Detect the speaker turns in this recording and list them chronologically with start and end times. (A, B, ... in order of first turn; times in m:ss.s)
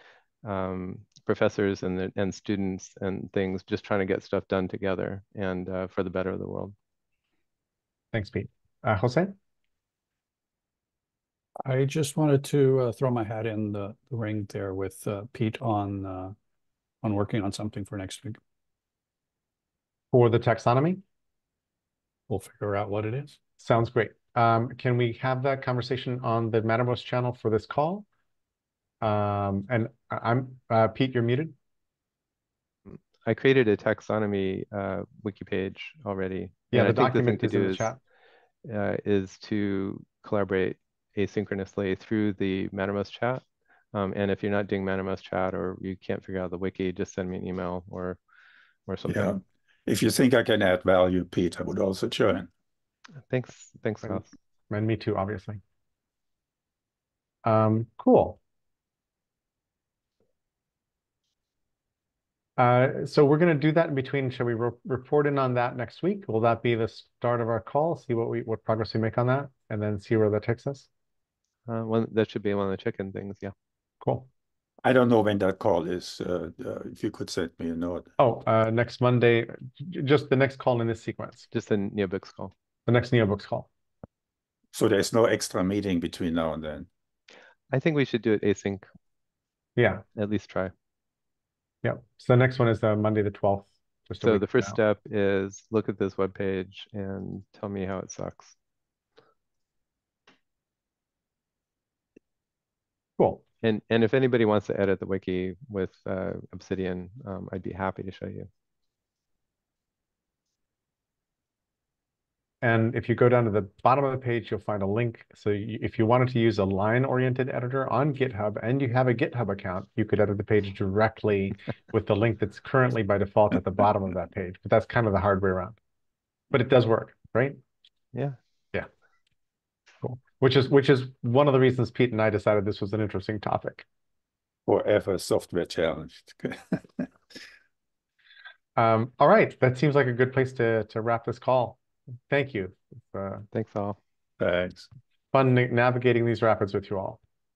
0:00.4-0:06.7 A
0:08.1-0:09.3 B
0:11.6-0:16.3 C
0:17.0-0:18.4 C
0:20.1-0:21.0 B
0:22.3-0:23.4 C
0:23.6-0:28.0 B
0:29.0-0:31.5 B
0:32.9-0:37.9 A
0:36.7-0:38.0 B
0:38.6-0:43.4 A
0:43.9-0:48.2 A
0:48.9-0:49.4 A
0:49.1-0:52.5 D
0:53.3-0:54.3 A
0:54.0-0:55.6 B
0:57.4-0:58.4 B
1:02.6-1:10.9 B
1:11.7-1:13.5 A
1:14.0-1:14.3 B
1:14.8-1:18.1 D
1:18.2-1:21.5 B
1:21.5-1:22.5 A
1:22.9-1:23.7 B
1:24.7-1:26.9 D
1:27.7-1:28.9 A
1:29.8-1:30.0 B
1:30.1-1:30.7 A
1:31.8-1:34.8 B
1:34.2-1:38.6 A
1:43.6-1:48.5 A
1:52.6-2:05.8 B
2:06.5-2:07.6 B
2:08.1-2:08.4 A
2:10.0-2:13.8 B
2:14.7-2:17.1 D
2:18.8-2:21.8 B
2:22.3-2:23.4 B
2:23.5-2:24.0 A
2:24.4-2:24.9 D
2:25.3-2:27.2 B